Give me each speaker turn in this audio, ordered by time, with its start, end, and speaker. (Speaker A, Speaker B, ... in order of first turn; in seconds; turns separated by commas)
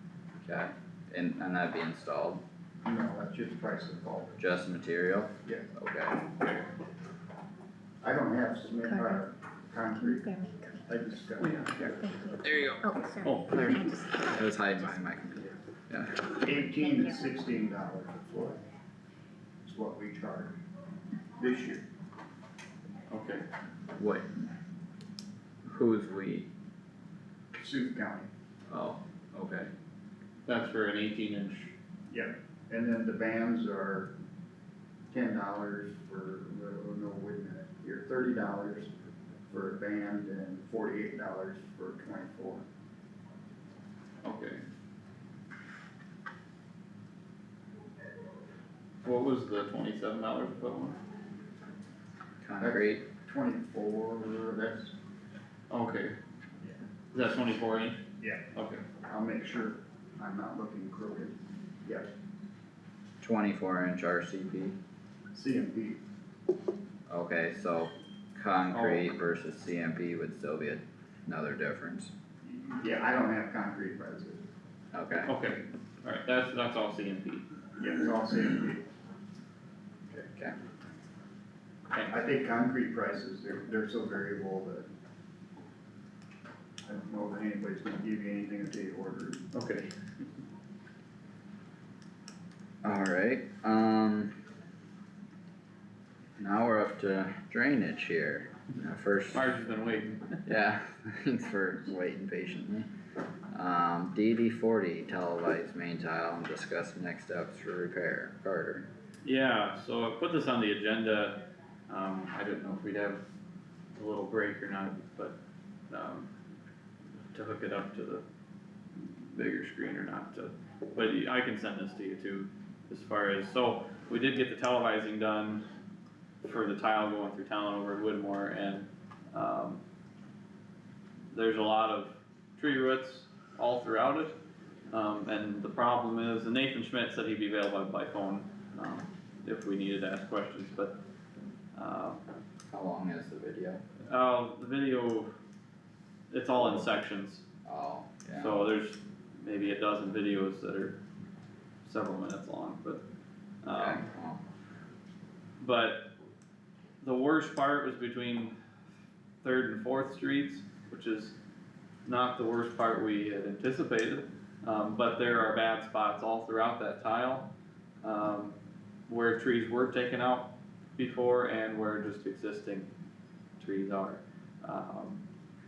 Speaker A: 0.4-2.4, Speaker B: 2.8-4.4, Speaker A: 4.4-6.3, Speaker B: 8.0-10.3, Speaker C: 8.8-9.2, Speaker C: 9.9-10.8, Speaker B: 10.8-12.2, Speaker D: 11.4-11.8, Speaker C: 12.0-14.9, Speaker A: 12.4-12.9, Speaker D: 13.2-13.8, Speaker A: 14.2-16.3, Speaker B: 16.3-18.6, Speaker C: 16.6-17.2, Speaker B: 19.6-20.6, Speaker B: 21.4-21.8, Speaker D: 23.1-23.4, Speaker A: 23.9-24.3, Speaker A: 25.6-26.5, Speaker B: 27.5-28.3, Speaker A: 28.7-29.7, Speaker D: 30.5-31.7, Speaker B: 32.1-34.1, Speaker B: 35.1-38.9, Speaker B: 39.5-42.6, Speaker D: 44.2-44.6, Speaker D: 49.0-51.0, Speaker A: 52.4-53.0, Speaker B: 52.6-54.9, Speaker D: 55.7-56.1, Speaker D: 57.1-58.0, Speaker B: 58.2-58.5, Speaker D: 58.5-58.8, Speaker B: 59.0-62.1, Speaker A: 63.2-64.8, Speaker B: 65.3-66.0, Speaker A: 67.1-72.1, Speaker D: 68.7-69.1, Speaker B: 72.4-74.4, Speaker A: 74.9-75.3, Speaker D: 75.2-77.5, Speaker B: 77.8-78.8, Speaker A: 80.1-80.5, Speaker D: 81.9-82.2, Speaker B: 82.1-84.9, Speaker B: 86.8-89.5, Speaker D: 89.5-89.9, Speaker A: 92.8-94.3, Speaker A: 96.4-99.5, Speaker D: 99.3-100.4, Speaker A: 100.5-102.9, Speaker A: 103.5-108.9, Speaker D: 109.2-113.2, Speaker D: 113.9-115.3, Speaker D: 115.9-116.3, Speaker D: 117.3-118.2, Speaker D: 119.0-125.6, Speaker D: 126.4-129.8, Speaker D: 131.3-134.3, Speaker D: 134.9-141.0, Speaker D: 141.7-142.2, Speaker A: 142.7-143.8, Speaker D: 144.0-145.3, Speaker D: 146.3-147.4, Speaker A: 147.7-148.5, Speaker D: 148.3-151.0, Speaker D: 151.8-153.0, Speaker D: 153.6-154.0, Speaker A: 153.7-154.4, Speaker D: 155.6-156.1, Speaker D: 157.0-158.5, Speaker D: 159.4-161.3, Speaker D: 162.1-167.5, Speaker D: 168.0-168.6, Speaker D: 169.1-172.9, Speaker D: 173.6-175.2